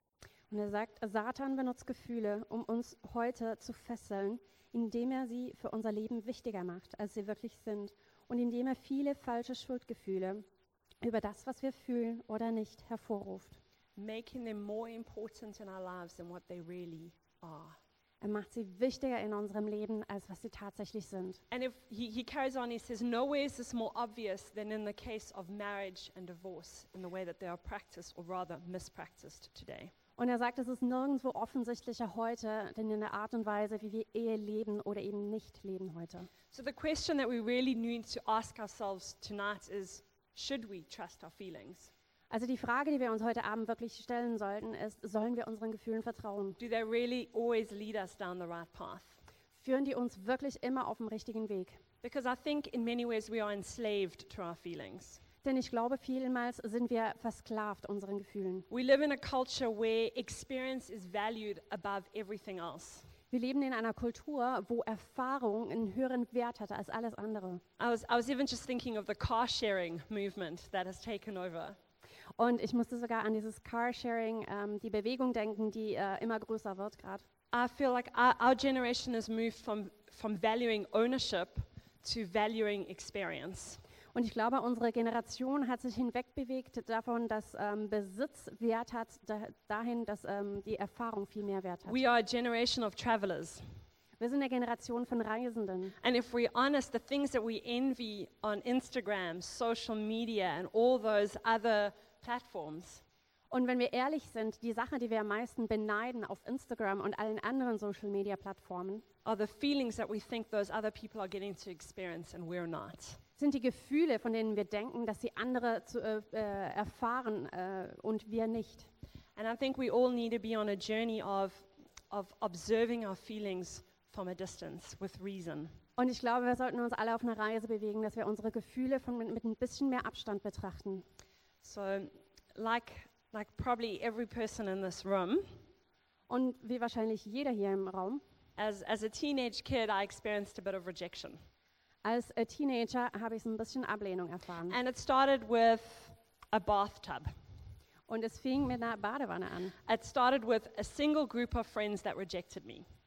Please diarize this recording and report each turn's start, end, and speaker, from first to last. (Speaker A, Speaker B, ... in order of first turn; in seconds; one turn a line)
Speaker A: 0.5-10.4
Speaker A: 11.0-13.6
Speaker B: 13.9-17.8
Speaker A: 18.2-21.4
Speaker B: 21.5-29.9
Speaker A: 30.2-36.3
Speaker B: 36.5-41.9
Speaker A: 42.3-46.6
Speaker B: 46.6-49.2
Speaker A: 49.5-51.8
Speaker B: 52.0-55.2
Speaker A: 55.4-58.7
Speaker B: 58.7-63.1
Speaker A: 63.3-67.6
Speaker B: 67.8-71.8
Speaker A: 72.4-77.3
Speaker B: 77.5-83.8
Speaker A: 84.1-92.0
Speaker B: 91.9-93.6
Speaker A: 94.2-95.9
Speaker B: 96.0-103.0
Speaker A: 103.5-109.0
Speaker B: 109.2-113.2
Speaker A: 113.4-118.9
Speaker B: 119.3-125.7
Speaker A: 126.0-131.0
Speaker B: 131.6-135.5
Speaker A: 136.3-138.2
Speaker B: 138.6-141.4
Speaker A: 142.0-144.8
Speaker B: 144.7-147.3
Speaker A: 148.1-149.7
Speaker B: 149.8-152.8